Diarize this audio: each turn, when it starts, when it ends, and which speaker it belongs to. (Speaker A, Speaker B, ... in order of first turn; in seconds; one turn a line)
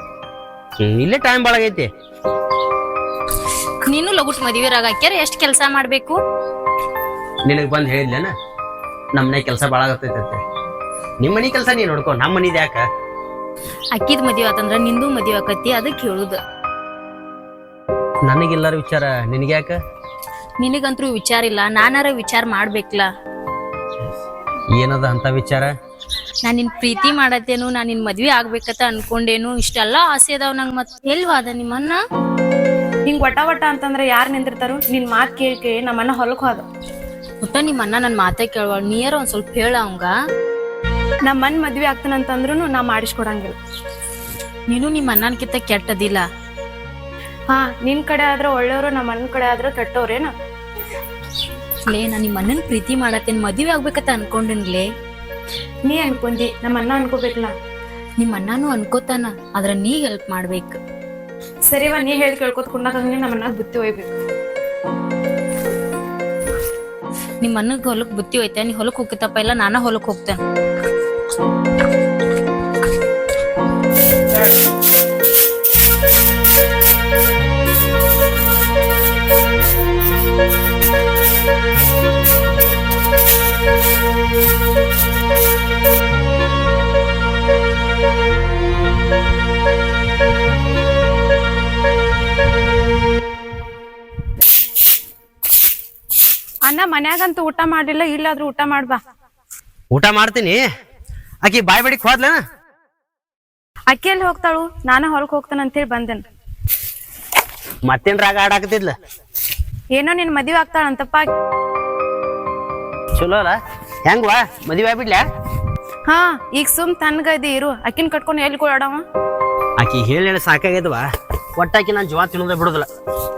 Speaker A: 0.8-1.9
Speaker B: 3.9-6.2
Speaker A: 7.5-8.3
Speaker A: 9.2-10.4
Speaker A: 11.2-12.8
Speaker B: 13.9-16.4
Speaker A: 18.2-19.8
Speaker B: 20.6-23.1
Speaker A: 24.8-25.7
Speaker B: 26.4-32.0
Speaker C: 33.1-36.7
Speaker B: 37.4-40.1
Speaker C: 41.3-43.6
Speaker B: 44.7-46.2
Speaker C: 47.5-50.3
Speaker B: 51.9-54.9
Speaker C: 55.9-57.5
Speaker B: 58.2-60.8
Speaker C: 61.7-64.2
Speaker B: 67.4-70.4
Speaker C: 96.6-99.0
Speaker A: 99.9-100.6
Speaker A: 101.4-102.4
Speaker C: 103.9-106.2
Speaker A: 107.9-108.9
Speaker C: 109.9-111.3
Speaker A: 113.2-115.2
Speaker C: 116.1-119.0
Speaker A: 119.8-121.0
Speaker A: 121.6-122.9